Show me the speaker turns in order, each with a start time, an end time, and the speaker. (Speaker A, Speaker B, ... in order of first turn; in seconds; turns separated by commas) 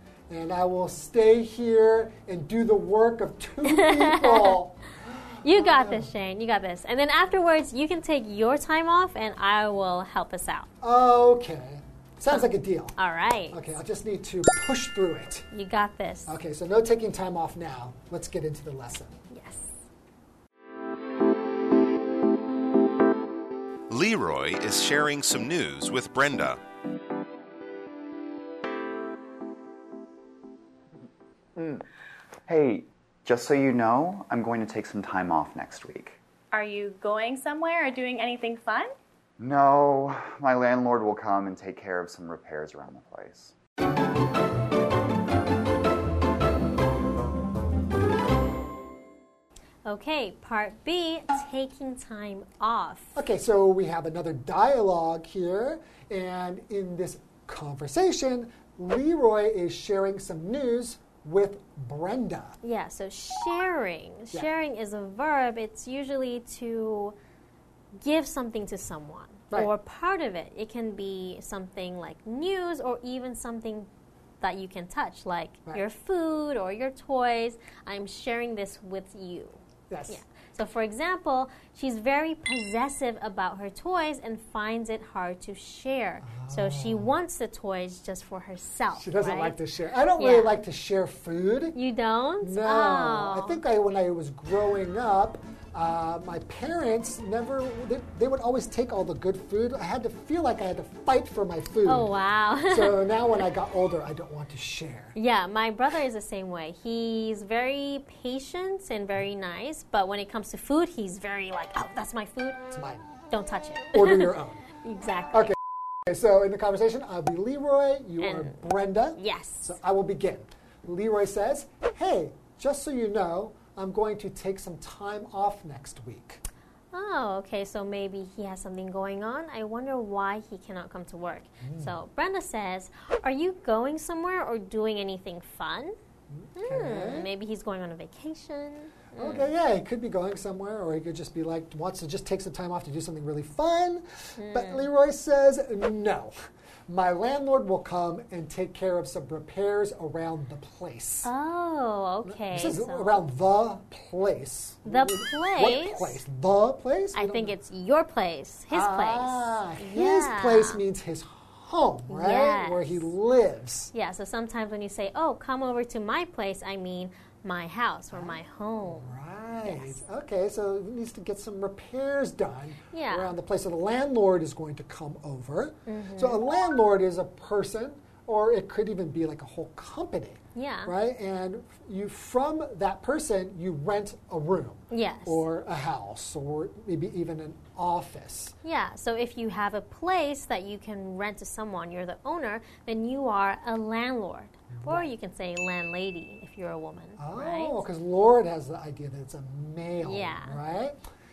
Speaker A: 0.3-6.1, Speaker B: 3.6-4.6, Speaker B: 5.4-10.7, Speaker A: 10.8-12.9, Speaker B: 13.0-13.7, Speaker A: 13.5-15.4, Speaker B: 15.5-16.3, Speaker A: 16.3-19.1, Speaker B: 19.3-19.8, Speaker C: 23.9-26.6, Speaker D: 31.6-31.8, Speaker D: 32.5-36.2, Speaker E: 36.5-38.9, Speaker D: 39.4-43.5, Speaker B: 49.8-53.1, Speaker A: 53.1-62.6, Speaker B: 62.6-67.2, Speaker B: 68.0-73.9, Speaker B: 74.4-89.6, Speaker A: 79.9-80.2, Speaker A: 86.2-87.1, Speaker A: 89.0-91.8, Speaker B: 90.2-90.6, Speaker B: 91.7-93.6, Speaker A: 92.4-102.1, Speaker B: 101.8-103.1, Speaker A: 102.7-105.2, Speaker B: 105.1-112.6, Speaker A: 112.7-113.1, Speaker B: 113.3-115.5, Speaker A: 113.9-114.6, Speaker A: 116.1-126.4, Speaker B: 118.2-119.8, Speaker B: 126.9-135.9, Speaker A: 131.6-131.9, Speaker A: 136.3-137.3, Speaker B: 136.5-139.5, Speaker A: 139.1-146.3, Speaker B: 144.4-144.8, Speaker A: 146.9-151.3, Speaker B: 151.2-153.3, Speaker A: 152.2-157.5, Speaker B: 154.8-156.2, Speaker B: 157.1-160.8, Speaker A: 158.7-163.9, Speaker B: 162.1-163.1, Speaker B: 163.9-169.1, Speaker A: 168.1-188.5, Speaker B: 169.6-170.0, Speaker B: 172.9-173.3, Speaker B: 175.9-176.4, Speaker B: 180.5-180.9, Speaker B: 184.9-185.4, Speaker B: 188.6-197.8, Speaker A: 194.7-195.1, Speaker A: 197.2-201.0, Speaker B: 200.0-200.6